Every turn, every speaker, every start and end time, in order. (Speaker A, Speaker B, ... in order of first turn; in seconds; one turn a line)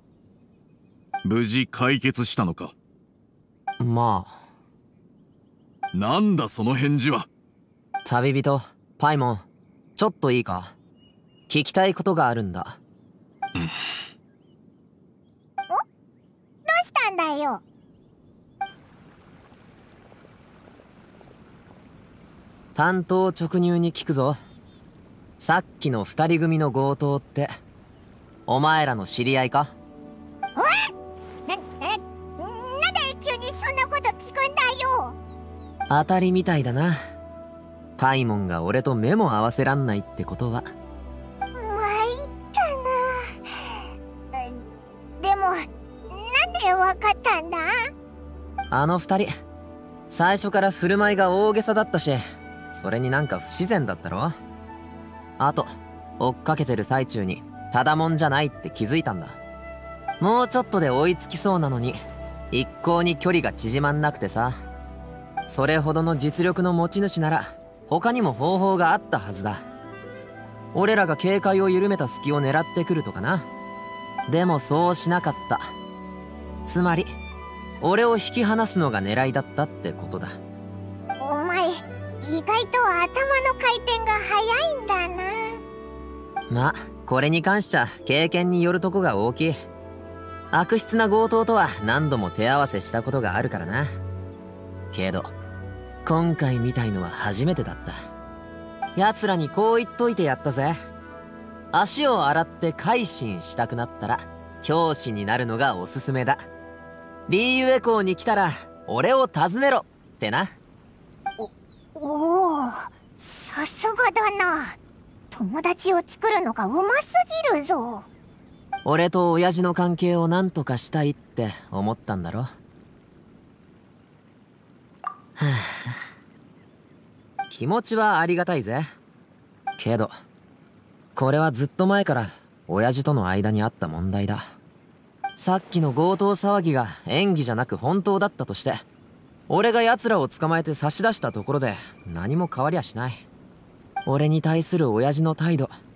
Speaker A: 1.2-2.7
Speaker B: 3.8-4.4
Speaker A: 5.9-7.3
Speaker B: 8.1-9.4
Speaker B: 10.0-10.7
Speaker B: 11.5-12.8
Speaker C: 16.6-17.6
Speaker B: 22.7-24.4
Speaker B: 25.4-27.5
Speaker B: 28.5-29.7
Speaker C: 30.6-30.9
Speaker C: 31.5-35.2
Speaker B: 35.9-37.0
Speaker B: 38.0-40.7
Speaker C: 41.5-43.3
Speaker C: 44.3-44.6
Speaker C: 45.2-45.6
Speaker C: 46.1-47.7
Speaker B: 48.7-49.3
Speaker B: 50.1-54.3
Speaker B: 55.4-55.7
Speaker B: 56.2-59.4
Speaker B: 60.2-62.0
Speaker B: 62.5-64.5
Speaker B: 65.5-69.6
Speaker B: 70.7-73.5
Speaker B: 74.3-75.7
Speaker B: 76.7-77.1
Speaker B: 77.8-80.4
Speaker C: 81.2-85.6
Speaker B: 86.5-89.6
Speaker B: 90.5-93.9
Speaker B: 94.9-95.3
Speaker B: 96.0-97.9
Speaker B: 99.0-100.8
Speaker B: 101.7-106.5
Speaker B: 107.3-110.5
Speaker C: 111.4-114.8
Speaker C: 115.3-118.1
Speaker B: 118.8-122.5
Speaker B: 125.4-126.0
Speaker B: 127.5-128.9
Speaker B: 129.8-130.1
Speaker B: 131.2-134.4
Speaker B: 135.4-138.8
Speaker B: 139.5-143.2
Speaker B: 144.1-145.7